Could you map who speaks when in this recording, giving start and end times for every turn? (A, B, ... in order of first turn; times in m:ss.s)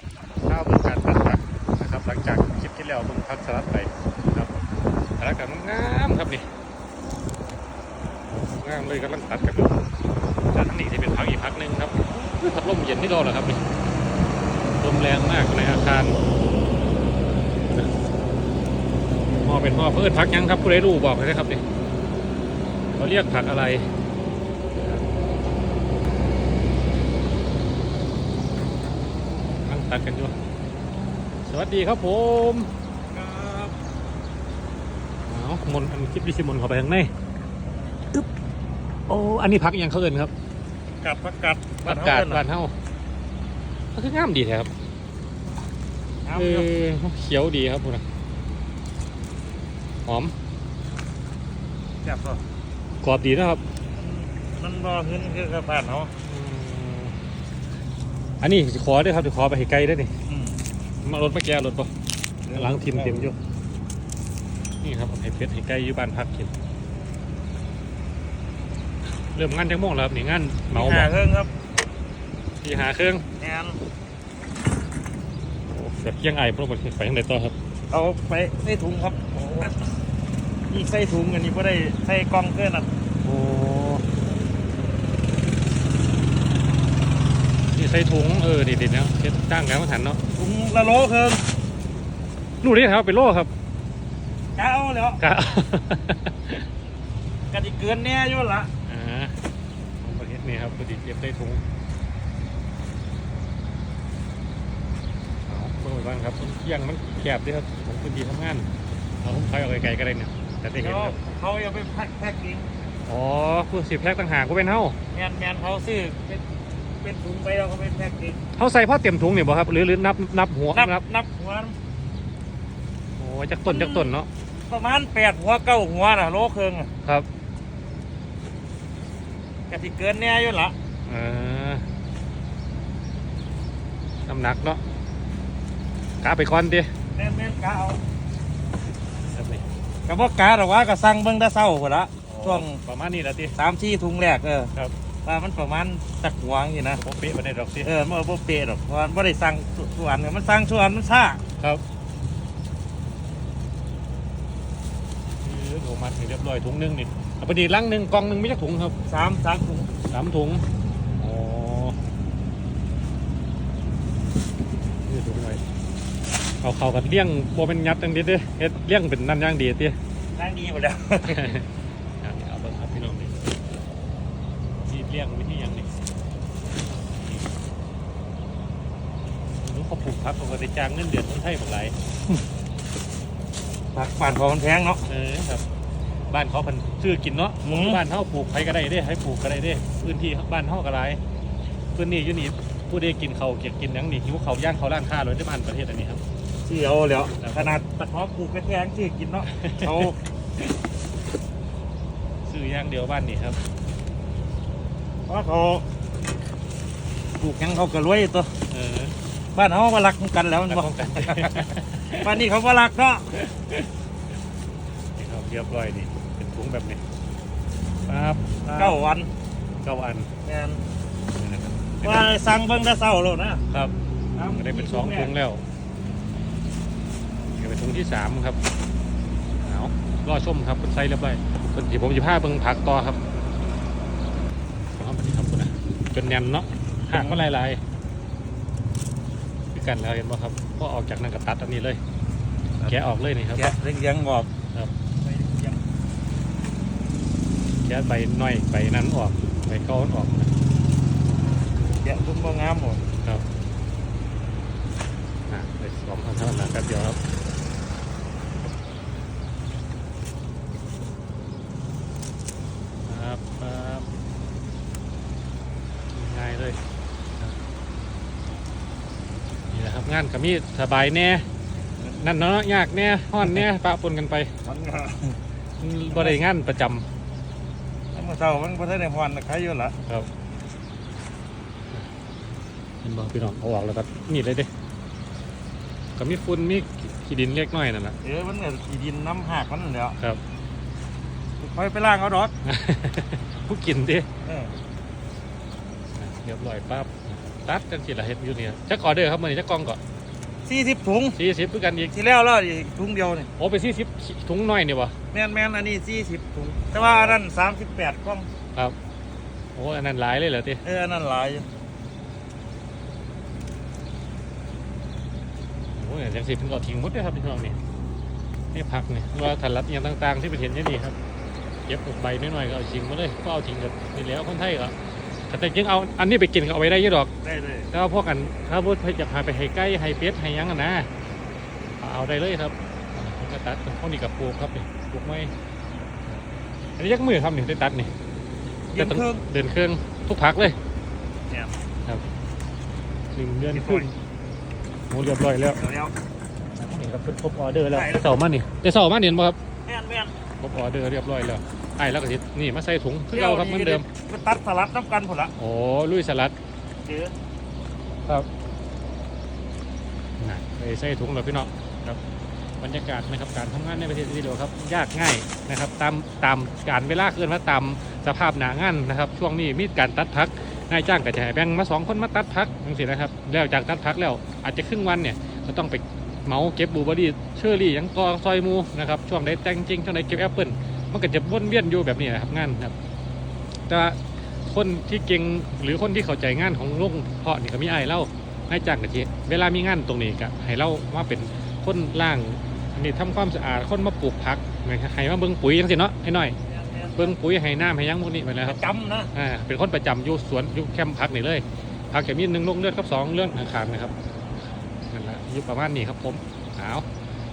0:00.4-0:04.5 A
0:05.2-0:06.4 A
0:08.3-0:09.8 A
0:10.5-0:13.6 A
0:14.8-0:16.2 A
0:19.4-0:21.6 A
0:22.9-0:23.9 A
0:24.8-0:25.0 A
0:29.6-0:30.3 A
0:31.4-0:32.7 A
0:33.1-0:33.8 B
0:35.2-0:37.1 A
0:39.1-0:40.3 A
0:40.9-0:42.4 B
0:41.8-0:42.7 A
0:43.9-0:44.7 A
0:46.2-0:46.7 B
0:46.3-0:48.0 A
0:50.0-0:50.3 A
0:52.0-0:52.4 B
0:53.0-0:53.6 A
0:54.0-0:56.1 B
0:56.2-0:57.1 A
0:58.4-1:00.1 A
1:00.3-1:00.6 B
1:01.0-1:01.9 A
1:02.4-1:03.3 B
1:02.5-1:03.4 A
1:04.8-1:06.5 A
1:09.3-1:11.1 A
1:10.7-1:11.5 B
1:12.6-1:13.2 A
1:13.4-1:13.8 B
1:15.7-1:17.5 A
1:17.9-1:19.7 B
1:19.3-1:19.7 A
1:20.7-1:22.9 B
1:23.2-1:24.0 A
1:27.7-1:30.2 A
1:30.4-1:31.4 B
1:32.6-1:33.5 A
1:34.6-1:35.2 B
1:35.2-1:36.6 A
1:37.5-1:38.7 B
1:38.8-1:39.3 A
1:40.0-1:41.6 A
1:45.5-1:48.7 A
1:49.2-1:51.2 A
1:50.8-1:52.6 B
1:53.1-1:55.0 A
1:55.1-1:56.4 B
1:57.0-1:58.4 B
1:58.6-2:01.0 A
2:00.7-2:01.8 B
2:03.2-2:04.3 A
2:03.7-2:04.1 B
2:04.7-2:06.9 B
2:09.7-2:10.7 B
2:11.0-2:11.8 A
2:14.2-2:14.8 A
2:16.2-2:16.9 A
2:17.2-2:18.0 B
2:19.3-2:19.6 A
2:20.1-2:22.8 B
2:22.2-2:23.6 A
2:23.6-2:24.7 B
2:25.2-2:27.0 B
2:26.9-2:27.9 A
2:27.8-2:31.4 B
2:35.4-2:39.0 A
2:39.1-2:39.9 B
2:40.1-2:40.6 A
2:41.2-2:42.0 A
2:44.8-2:45.6 A
2:46.6-2:50.0 A
2:50.4-2:51.5 B
2:51.3-2:51.7 A
2:52.2-2:53.4 A
2:54.8-2:55.9 A
2:57.2-2:57.5 A
2:59.5-3:02.0 A
3:03.9-3:05.0 B
3:05.0-3:05.6 A
3:06.3-3:11.2 A
3:07.6-3:08.0 B
3:11.9-3:16.2 A
3:16.6-3:20.1 B
3:17.4-3:17.8 A
3:19.5-3:20.1 A
3:22.4-3:23.6 A
3:25.3-3:25.8 B
3:27.4-3:28.5 B
3:28.7-3:29.2 A
3:29.5-3:31.7 B
3:30.7-3:32.4 A
3:32.2-3:33.3 B
3:33.4-3:33.9 A
3:35.2-3:37.0 A
3:38.1-3:39.0 A
3:38.7-3:39.3 B
3:39.8-3:40.3 A
3:40.4-3:40.8 B
3:41.4-3:42.3 A
3:42.0-3:43.6 B
3:43.7-3:45.6 A
3:44.4-3:45.3 B
3:47.5-3:48.6 A
3:49.6-3:53.2 A
3:54.9-3:57.8 A
3:57.1-3:57.4 B
3:59.7-4:02.0 A
4:02.8-4:03.7 A
4:03.6-4:04.5 B
4:05.2-4:05.8 B
4:07.8-4:10.5 A
4:12.0-4:13.0 B
4:15.5-4:17.2 A
4:23.0-4:24.1 A
4:26.1-4:26.8 A
4:29.7-4:31.4 A
4:32.1-4:34.5 A
4:34.6-4:35.4 B
4:35.8-4:37.0 A
4:36.1-4:36.4 B
4:38.1-4:39.9 B
4:43.0-4:44.7 A
4:46.2-4:48.2 A
4:48.2-4:50.2 B
4:51.6-4:52.5 B
4:52.6-4:54.3 A
4:54.4-4:54.7 B
4:56.2-5:00.0 A
5:00.6-5:01.4 B
5:01.4-5:02.1 A
5:02.1-5:03.5 B
5:03.6-5:05.1 A
5:05.3-5:08.5 B
5:06.9-5:07.4 A
5:09.7-5:10.8 A
5:10.8-5:11.7 B
5:15.9-5:17.8 A
5:18.7-5:21.2 A
5:21.9-5:24.9 A
5:25.5-5:27.3 A
5:27.4-5:27.9 B
5:27.9-5:31.1 A
5:32.0-5:35.5 A
5:37.0-5:38.1 A
5:38.9-5:39.4 B
5:39.0-5:40.8 A
5:43.3-5:44.1 A
5:43.7-5:44.1 B
5:45.1-5:45.8 A
5:45.8-5:46.1 B
5:46.8-5:49.6 A
5:47.9-5:48.4 B
5:49.8-5:50.3 B
5:50.6-5:54.0 A
5:53.3-5:55.5 B
5:55.6-5:56.5 A
5:57.0-5:57.3 B
6:00.4-6:02.2 A
6:02.8-6:22.9 A
6:23.9-6:36.6 A
6:36.7-6:37.3 B
6:37.2-6:38.8 A
6:38.6-6:39.3 B
6:39.3-6:44.1 A
6:45.1-6:47.0 A